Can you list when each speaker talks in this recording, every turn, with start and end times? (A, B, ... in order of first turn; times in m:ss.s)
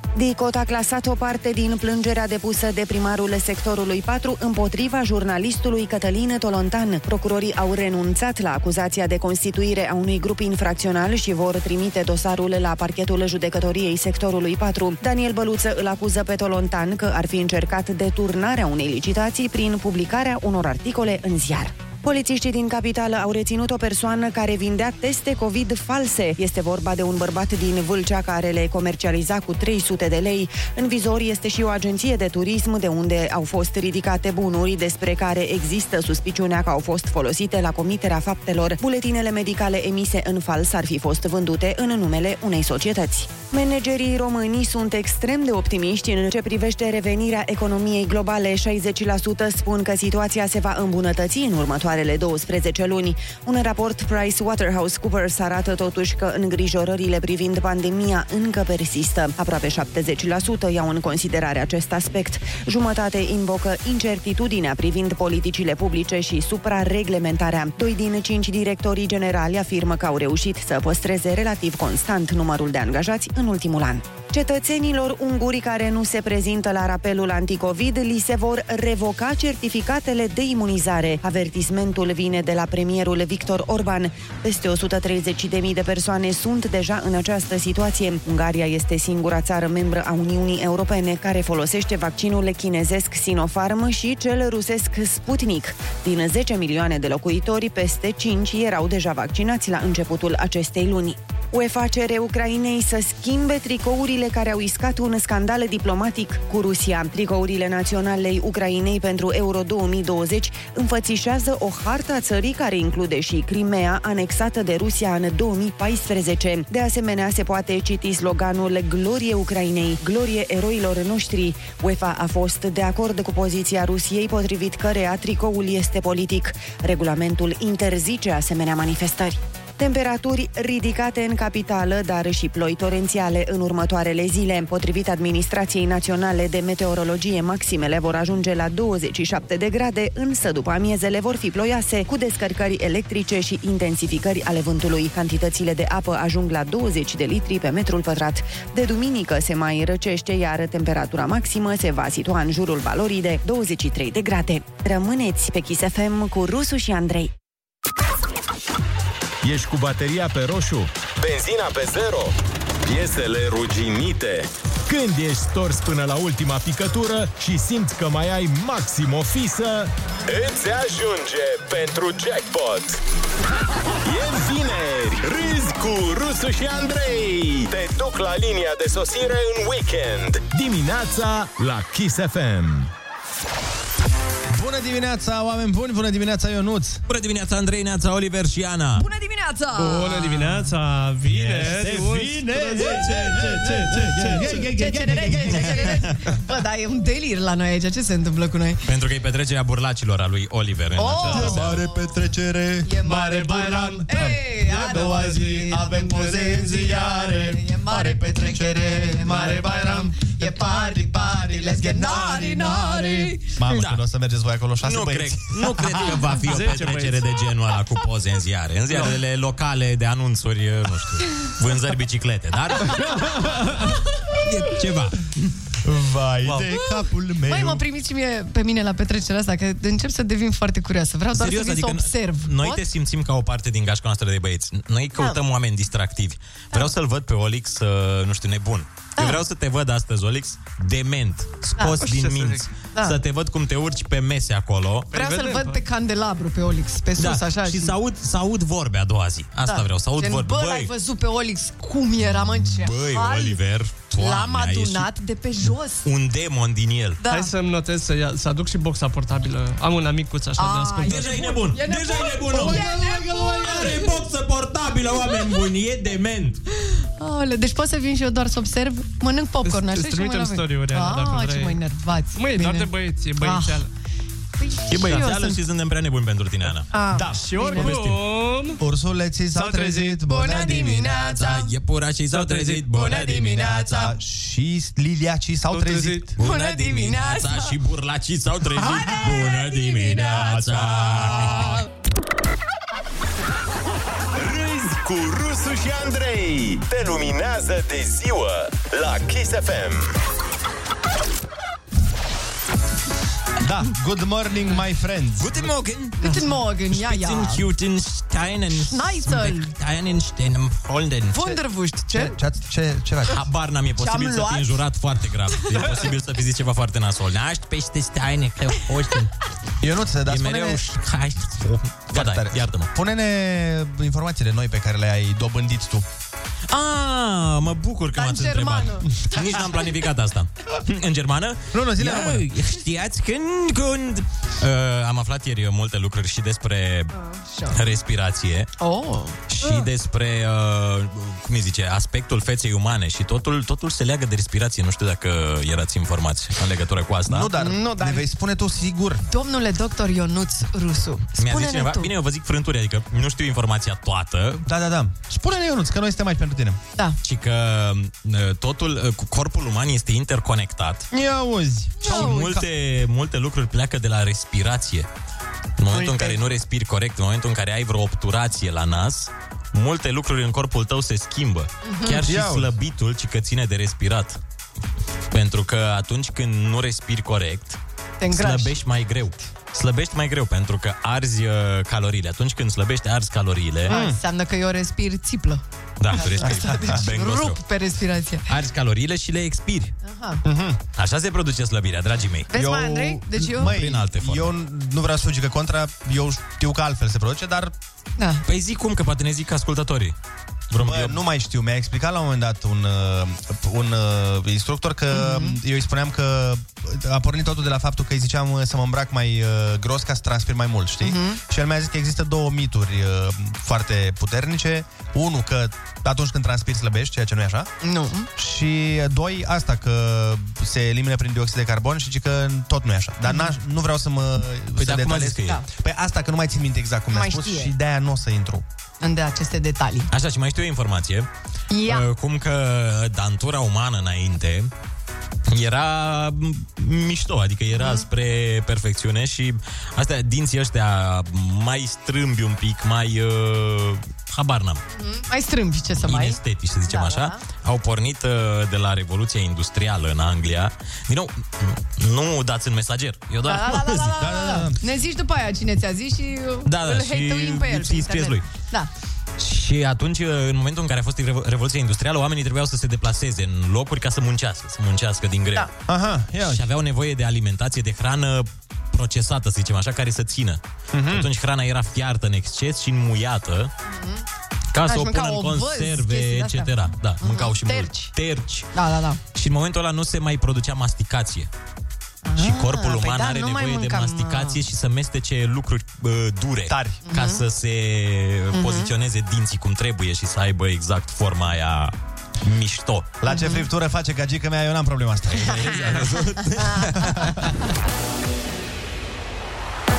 0:00.1-2:37.3 A
2:39.4-2:41.0 B
2:41.1-2:42.4 C
2:42.9-2:44.5 C
2:44.9-2:49.9 B
2:50.3-2:53.0 C
2:54.1-2:56.1 C
2:54.2-2:54.6 B
2:55.2-2:57.3 B
2:57.0-3:00.4 C
3:00.5-3:02.9 B
3:04.5-3:07.0 D
3:07.1-3:09.1 E
3:09.0-3:10.6 F
3:09.7-3:14.6 G
3:11.3-3:16.0 D
3:14.4-3:18.8 F
3:18.8-3:21.8 E
3:21.0-3:21.7 F
3:21.2-3:36.2 D
3:22.8-3:33.6 F
3:23.1-3:24.0 G
3:33.7-3:34.0 E
3:34.8-3:43.0 E
3:36.4-3:37.2 G
3:44.4-3:45.3 E
3:45.8-3:47.8 D
3:47.5-3:52.8 F
3:51.3-4:05.1 E
4:02.0-4:02.6 G
4:05.1-4:05.8 G
4:05.1-4:07.9 F
4:07.2-4:10.9 E
4:09.6-4:13.6 F
4:12.7-4:15.1 E
4:14.1-4:16.0 F
4:16.0-4:17.2 E
4:17.2-4:17.5 F
4:17.3-4:21.4 G
4:20.6-4:24.0 F
4:21.0-4:26.6 E
4:22.5-4:23.8 D
4:27.2-4:33.9 F
4:29.6-4:31.8 G
4:32.4-4:33.9 G
4:34.6-4:35.6 F
4:34.9-4:36.9 E
4:36.9-4:38.1 F
4:37.1-4:38.1 D
4:37.3-4:38.8 G
4:38.8-4:41.1 D
4:39.5-4:40.2 G
4:40.2-4:41.7 F
4:41.1-4:44.1 E
4:42.3-4:42.8 G
4:42.9-4:44.1 F
4:44.0-4:46.3 D
4:45.7-4:46.3 G
4:46.4-4:47.7 F
4:46.4-4:51.8 E
4:49.7-4:50.5 F
4:50.7-4:51.5 B
4:54.4-4:56.6 B
4:56.0-5:00.1 C
5:03.6-5:05.7 D
5:05.4-5:11.6 E
5:06.2-5:07.6 F
5:08.8-5:09.7 F
5:11.3-5:12.4 F
5:12.1-5:13.4 D
5:13.3-5:19.3 E
5:14.0-5:14.8 F
5:19.8-5:20.8 D
5:20.3-5:22.9 E
5:22.1-5:26.0 D
5:26.7-5:37.1 E
5:28.1-5:29.8 F
5:31.7-5:32.5 D
5:37.1-5:37.8 F
5:37.7-5:38.7 E
5:38.8-5:39.8 F
5:39.5-5:47.5 E
5:47.3-5:49.2 D
5:47.6-5:48.2 F
5:49.3-5:52.1 F
5:51.4-5:54.6 E
5:54.6-5:56.8 D
5:57.2-6:01.1 E
6:01.1-6:02.7 D
6:02.0-6:02.5 F
6:02.0-6:05.1 E
6:05.8-6:14.4 E
6:05.9-6:06.4 F
6:11.8-6:12.2 F
6:12.2-6:12.7 D
6:15.3-6:17.8 E
6:18.2-6:18.8 F
6:18.3-6:24.0 E
6:23.9-6:24.2 D
6:23.9-6:25.6 F
6:26.0-6:27.6 E
6:26.1-6:28.5 F
6:26.4-6:27.0 D
6:28.5-6:29.9 E
6:30.0-6:30.4 F
6:30.4-6:30.8 D
6:31.0-6:32.5 E
6:32.5-6:33.8 F
6:32.5-6:37.7 D
6:33.6-6:34.6 E
6:38.5-6:40.1 E
6:40.7-6:41.2 E
6:40.7-6:57.7 D
6:45.1-6:45.6 F
6:51.0-6:51.4 F
6:57.8-6:58.3 F
6:58.4-7:08.6 D
7:03.2-7:03.5 F
7:04.8-7:05.6 E
7:07.1-7:07.7 F
7:09.0-7:10.1 F
7:10.1-7:11.3 E
7:11.7-7:12.0 F
7:11.8-7:14.7 E
7:15.5-7:24.8 E
7:17.8-7:18.0 F
7:24.9-7:26.4 F
7:26.0-7:34.2 E
7:26.9-7:27.4 F
7:33.4-7:38.9 F
7:34.2-7:34.8 D
7:36.6-7:38.4 E
7:39.4-7:45.7 E
7:45.9-7:46.6 D
7:46.4-7:53.7 E
7:50.9-7:51.3 D
7:53.8-7:54.2 F
7:54.7-7:58.7 E
7:54.8-7:58.1 F
7:58.7-7:59.2 F
7:59.3-8:01.5 E
8:02.2-8:04.6 F
8:02.4-8:13.2 E
8:06.7-8:07.0 D
8:07.0-8:07.4 F
8:08.5-8:08.9 F
8:13.2-8:16.0 D
8:13.3-8:13.6 F
8:15.3-8:17.5 E
8:16.7-8:17.0 F
8:16.9-8:17.4 D